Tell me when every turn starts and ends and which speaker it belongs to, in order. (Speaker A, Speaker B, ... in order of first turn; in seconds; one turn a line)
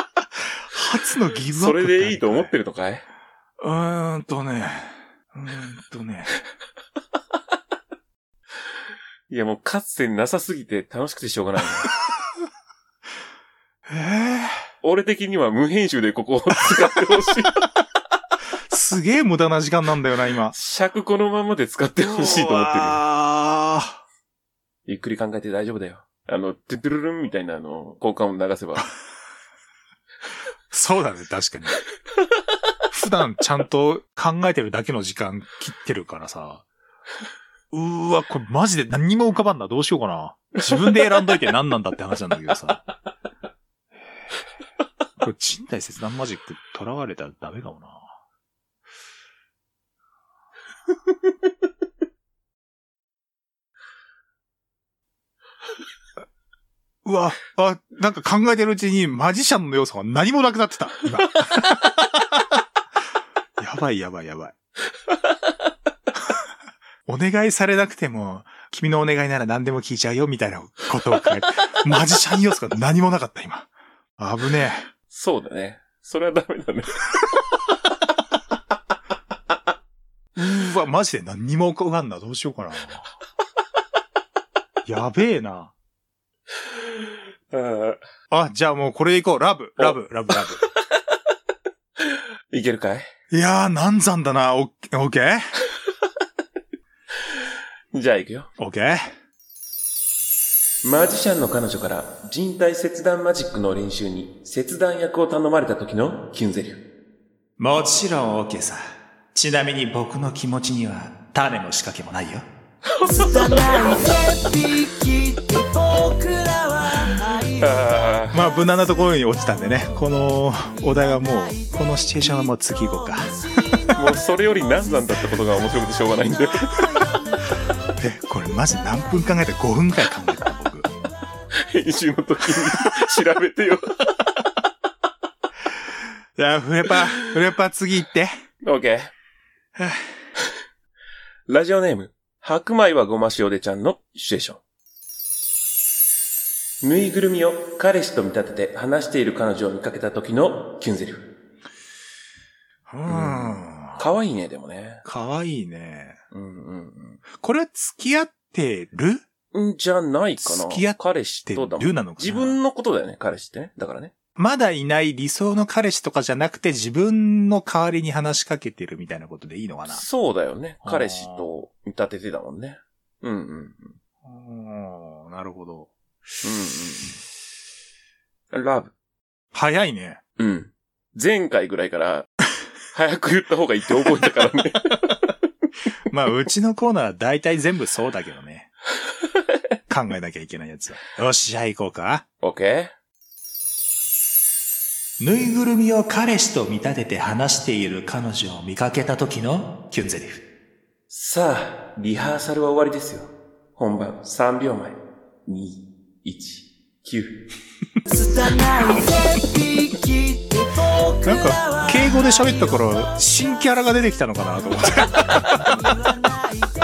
Speaker A: 0.7-2.5
Speaker B: 1.6-3.0
Speaker A: 3.6-6.3
Speaker B: 9.3-11.9
Speaker A: 13.9-14.6
Speaker B: 14.8-17.6
Speaker A: 18.7-20.5
Speaker B: 20.5-23.0
Speaker A: 22.0-24.0
Speaker B: 24.9-28.9
Speaker A: 30.7-31.8
Speaker A: 32.9-36.6
Speaker A: 37.7-42.8
Speaker A: 45.2-48.1
Speaker A: 57.0-62.4
Speaker A: 63.6-64.5
Speaker A: 67.0-74.9
Speaker B: 75.1-77.0
Speaker A: 80.3-83.0
Speaker A: 84.8-85.7
Speaker B: 87.5-88.0
Speaker A: 88.3-90.6
Speaker B: 92.1-93.1
Speaker A: 93.3-95.5
Speaker B: 97.9-98.5
Speaker A: 98.6-99.1
Speaker B: 100.8-106.8
Speaker A: 107.6-112.4
Speaker B: 113.0-113.7
Speaker C: 113.0-117.5
Speaker B: 117.6-118.4
Speaker A: 118.3-123.9
Speaker B: 123.9-126.8
Speaker A: 128.0-130.9
Speaker B: 131.6-134.2
Speaker A: 136.3-138.3
Speaker B: 138.6-139.1
Speaker A: 139.8-140.0
Speaker B: 141.5-144.6
Speaker B: 146.8-151.3
Speaker A: 152.9-154.1
Speaker B: 153.1-155.0
Speaker A: 155.0-156.2
Speaker B: 156.3-157.2
Speaker A: 157.3-159.2
Speaker B: 159.5-164.1
Speaker A: 160.4-162.6
Speaker A: 164.4-170.0
Speaker B: 169.9-173.9
Speaker A: 170.8-171.5
Speaker A: 174.2-175.9
Speaker B: 176.4-177.2
Speaker B: 178.5-178.9
Speaker A: 179.5-180.2
Speaker B: 180.4-182.3
Speaker B: 182.9-185.2
Speaker A: 186.1-188.7
Speaker A: 189.9-192.2
Speaker B: 192.4-192.9
Speaker A: 195.2-200.4
Speaker B: 201.1-207.4
Speaker C: 208.1-211.8
Speaker A: 211.2-215.8